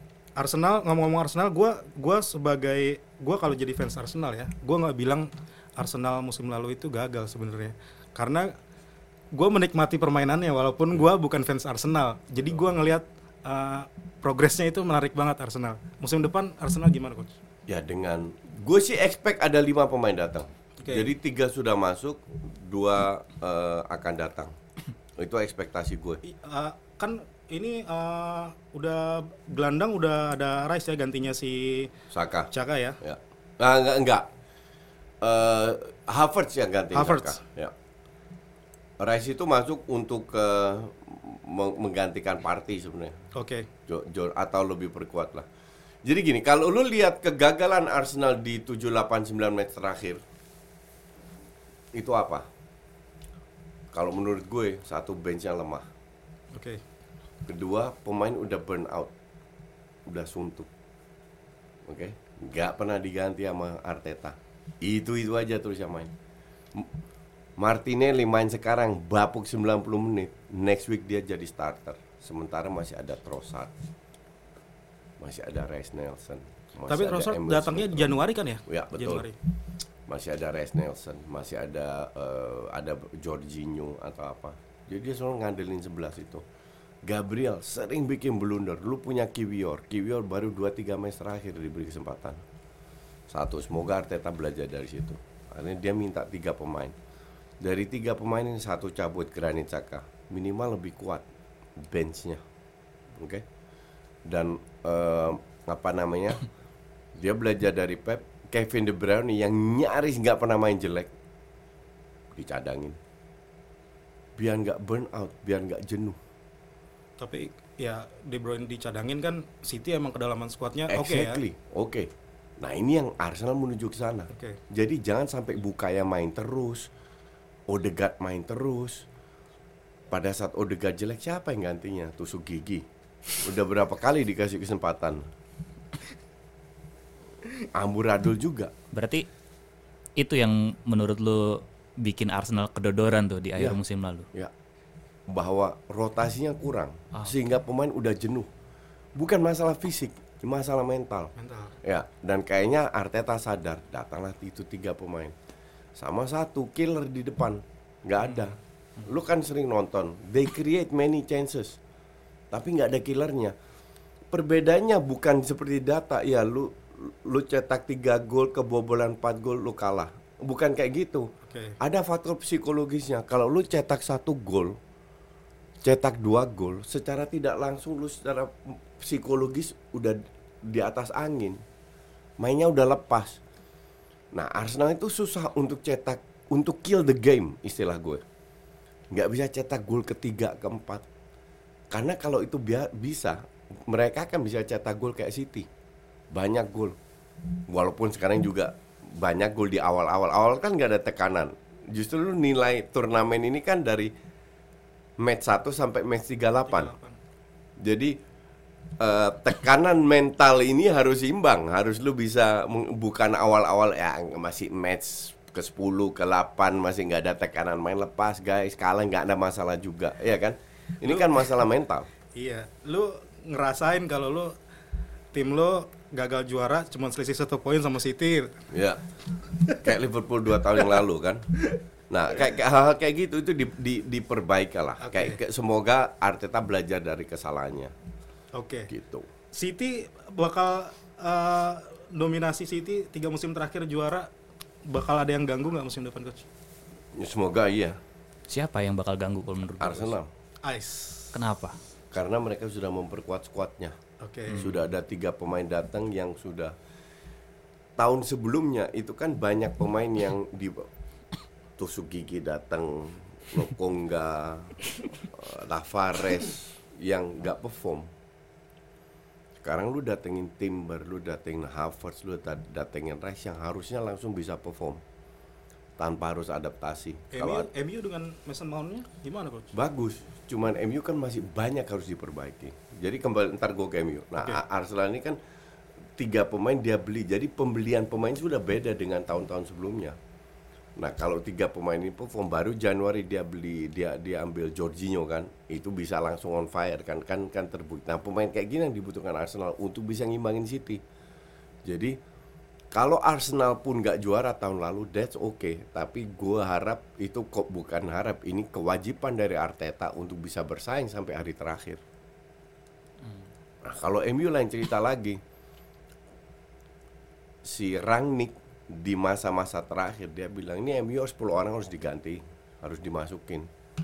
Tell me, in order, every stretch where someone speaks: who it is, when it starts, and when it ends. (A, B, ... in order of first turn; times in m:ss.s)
0:00.4-0:08.5 A
0:09.3-0:17.3 A
0:17.7-0:24.5 B
0:20.8-0:21.1 A
0:25.2-0:26.2 B
0:26.2-0:31.9 A
0:32.1-0:32.5 B
0:32.5-0:33.0 A
0:33.0-0:34.3 B
0:35.2-0:37.7 B
0:36.9-0:37.4 A
0:39.0-0:43.1 B
0:43.3-0:43.7 A
0:43.9-0:45.4 B
0:46.0-0:50.2 B
0:51.9-0:52.5 B
0:53.9-0:55.9 B
0:56.5-0:56.8 A
0:57.4-0:59.1 B
1:00.1-1:00.7 B
1:01.9-1:06.1 B
1:07.6-1:13.7 B
1:15.2-1:18.1 B
1:16.9-1:19.3 A
1:18.6-1:19.3 B
1:20.1-1:26.4 B
1:27.0-1:32.4 B
1:33.3-1:36.9 B
1:37.6-1:41.2 B
1:41.8-1:42.4 B
1:43.2-1:43.4 B
1:44.3-1:46.4 B
1:47.2-1:51.1 B
1:52.4-1:53.0 B
1:54.4-1:56.2 B
1:57.2-2:01.4 A
2:00.9-2:02.1 B
2:02.6-2:06.9 B
2:04.3-2:04.6 A
2:07.7-2:09.0 B
2:10.1-2:15.3 B
2:17.7-2:18.7 B
2:18.9-2:19.2 C
2:20.2-2:24.3 C
2:25.3-2:28.5 B
2:29.2-2:35.3 B
2:31.4-2:31.8 A
2:36.0-2:41.8 B
2:42.5-2:43.5 B
2:44.3-2:51.3 B
2:51.5-2:51.8 A
2:51.8-2:54.8 B
2:55.8-3:01.6 B
3:02.4-3:03.4 B
3:04.3-3:08.2 B
3:09.1-3:11.0 B
3:11.9-3:15.7 B
3:16.3-3:16.9 B
3:17.7-3:24.1 B
3:25.2-3:26.9 B
3:26.6-3:27.2 A
3:27.8-3:28.1 B
3:29.0-3:42.1 B
3:41.1-3:41.4 A
3:42.3-3:44.5 A
3:45.3-3:48.6 A
3:48.7-3:49.0 B
3:49.6-3:51.4 B
3:52.1-3:57.9 B
3:55.0-3:55.4 A
3:58.5-3:58.9 A
3:58.9-3:59.3 B
3:59.5-4:04.3 A
4:04.9-4:06.4 A
4:07.2-4:08.0 B
4:08.5-4:10.1 C
4:09.8-4:10.3 B
4:10.6-4:11.3 A
4:11.3-4:11.8 C
4:12.1-4:14.0 B
4:14.2-4:14.7 A
4:14.5-4:16.7 B
4:18.0-4:20.9 B
4:21.8-4:24.8 B
4:25.3-4:28.1 B
4:29.6-4:35.0 B
4:36.0-4:37.7 B
4:37.3-4:39.7 A
4:39.7-4:45.4 B
4:46.2-4:50.2 B
4:51.0-5:01.0 B
5:01.8-5:02.2 B
5:02.9-5:12.0 B
5:13.8-5:15.4 B
5:17.6-5:23.7 B